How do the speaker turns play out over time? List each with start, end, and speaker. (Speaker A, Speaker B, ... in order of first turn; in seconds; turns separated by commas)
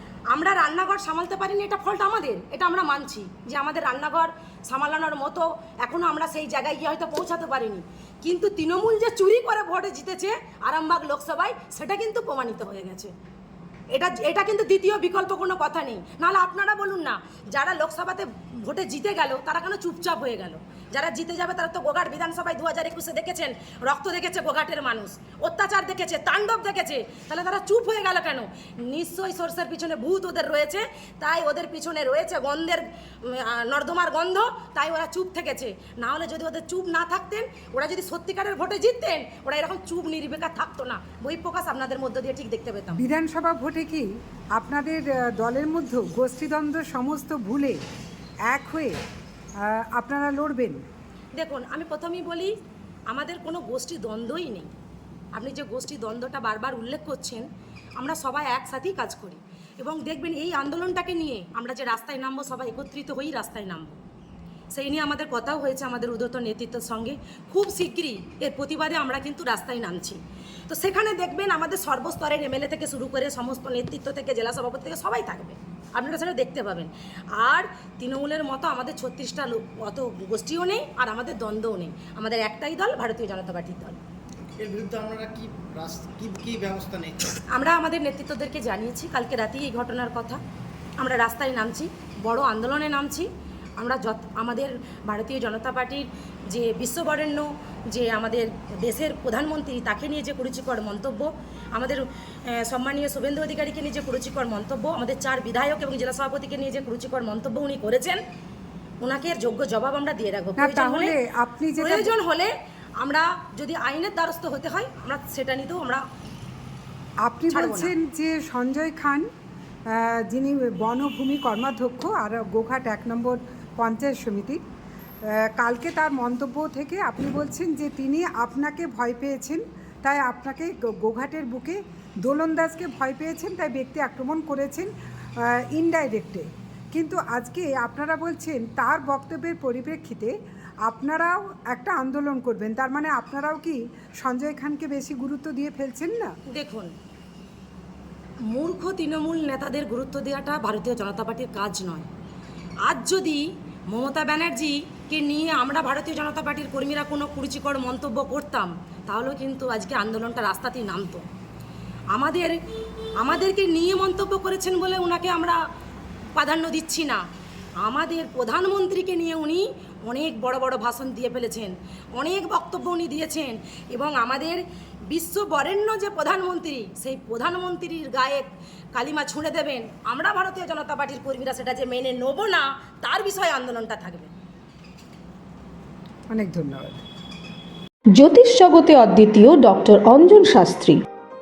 Speaker A: 0.3-13.1, Speaker A: 13.9-43.0, Speaker B: 43.0-47.8, Speaker B: 48.5-49.0, Speaker B: 49.7-50.8, Speaker A: 51.4-52.5, Speaker A: 53.1-54.7, Speaker A: 55.4-64.0, Speaker A: 64.7-84.0, Speaker C: 84.5-87.4, Speaker A: 87.5-90.4, Speaker A: 91.0-108.2, Speaker A: 109.0-111.2, Speaker B: 110.6-112.1, Speaker A: 111.8-116.0, Speaker B: 117.2-119.2, Speaker A: 117.5-117.9, Speaker B: 119.9-124.6, Speaker B: 125.6-134.9, Speaker B: 135.4-140.3, Speaker B: 140.9-146.3, Speaker A: 146.5-146.9, Speaker A: 148.5-152.1, Speaker A: 152.8-161.3, Speaker A: 162.1-162.6, Speaker A: 163.2-165.6, Speaker A: 166.4-167.2, Speaker A: 167.8-184.3, Speaker B: 186.3-187.0, Speaker D: 188.1-191.0